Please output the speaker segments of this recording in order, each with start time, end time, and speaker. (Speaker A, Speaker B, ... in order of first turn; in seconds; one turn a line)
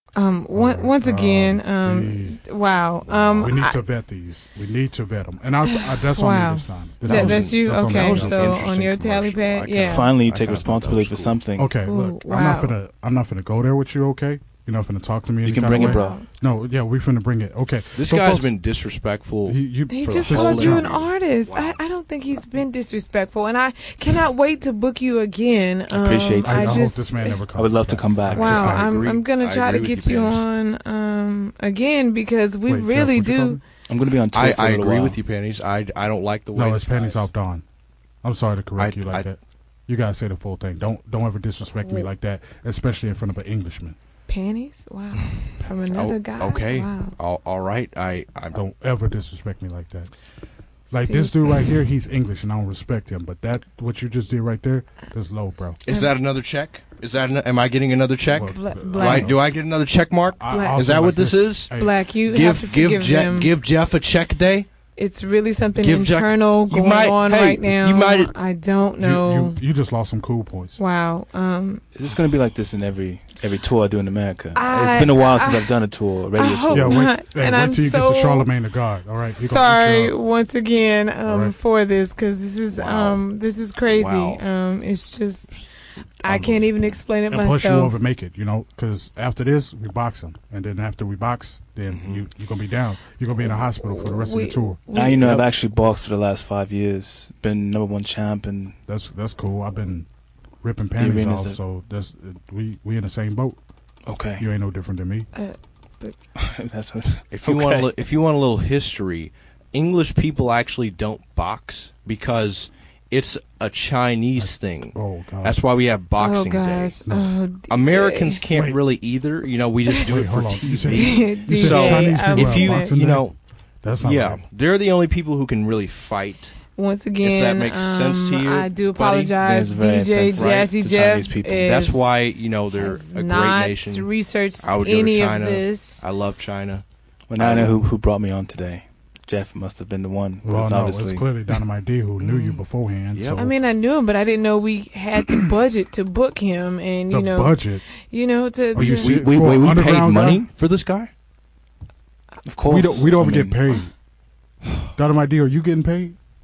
Speaker A: 0.1-3.8
Speaker B: 0.5-2.4
Speaker C: 3.1-3.6
Speaker B: 3.4-8.7
Speaker A: 5.6-10.1
Speaker C: 7.0-11.4
Speaker D: 9.8-11.7
Speaker B: 11.6-18.5
Speaker A: 11.8-12.8
Speaker D: 15.4-16.2
Speaker A: 15.7-16.2
Speaker C: 17.9-21.8
Speaker B: 19.4-21.0
Speaker A: 19.9-27.4
Speaker D: 25.9-26.9
Speaker B: 26.4-29.0
Speaker D: 27.5-28.6
Speaker C: 28.3-30.4
Speaker A: 28.3-33.6
Speaker B: 32.7-33.6
Speaker D: 33.9-35.2
Speaker C: 34.3-37.3
Speaker B: 36.5-37.6
Speaker B: 38.2-44.0
Speaker C: 38.8-39.3
Speaker A: 41.8-42.1
Speaker A: 44.3-47.1
Speaker C: 45.9-48.6
Speaker B: 48.5-50.1
Speaker A: 50.9-51.5
Speaker B: 50.9-55.8
Speaker C: 55.9-61.7
Speaker A: 55.9-56.1
Speaker B: 58.3-59.5
Speaker A: 58.5-59.3
Speaker B: 60.4-61.9
Speaker A: 60.5-60.8
Speaker A: 61.7-63.5
Speaker C: 62.2-64.7
Speaker A: 65.0-69.6
Speaker C: 65.8-68.3
Speaker B: 69.0-70.8
Speaker A: 70.8-71.8
Speaker D: 71.9-77.1
Speaker A: 74.5-75.7
Speaker A: 76.4-78.5
Speaker B: 76.7-80.2
Speaker A: 79.2-85.6
Speaker B: 81.2-81.5
Speaker C: 82.7-83.2
Speaker C: 83.8-84.4
Speaker A: 86.2-87.9
Speaker C: 86.2-86.6
Speaker B: 87.3-94.8
Speaker C: 91.9-92.2
Speaker A: 93.5-95.4
Speaker D: 94.9-98.8
Speaker B: 98.9-100.1
Speaker B: 100.6-103.6
Speaker D: 101.0-101.6
Speaker D: 104.0-104.5
Speaker B: 104.4-105.3
Speaker A: 105.3-106.1
Speaker D: 106.3-107.9
Speaker C: 107.3-117.0
Speaker B: 114.3-115.6
Speaker A: 116.2-118.4
Speaker C: 117.7-123.3
Speaker B: 118.5-118.8
Speaker B: 120.0-123.3
Speaker A: 120.9-122.9
Speaker B: 123.8-124.4
Speaker C: 124.0-126.5
Speaker A: 126.8-132.1
Speaker C: 127.2-129.4
Speaker D: 129.4-131.9
Speaker C: 130.3-130.7
Speaker C: 131.6-134.1
Speaker A: 132.7-136.0
Speaker C: 134.6-136.8
Speaker D: 137.3-141.2
Speaker C: 137.4-137.8
Speaker B: 140.4-143.5
Speaker C: 142.2-143.5
Speaker A: 143.3-149.2
Speaker B: 145.2-145.5
Speaker B: 147.1-147.8
Speaker B: 148.7-150.4
Speaker C: 148.8-151.1
Speaker D: 152.4-153.6
Speaker B: 152.6-153.9
Speaker B: 154.9-156.2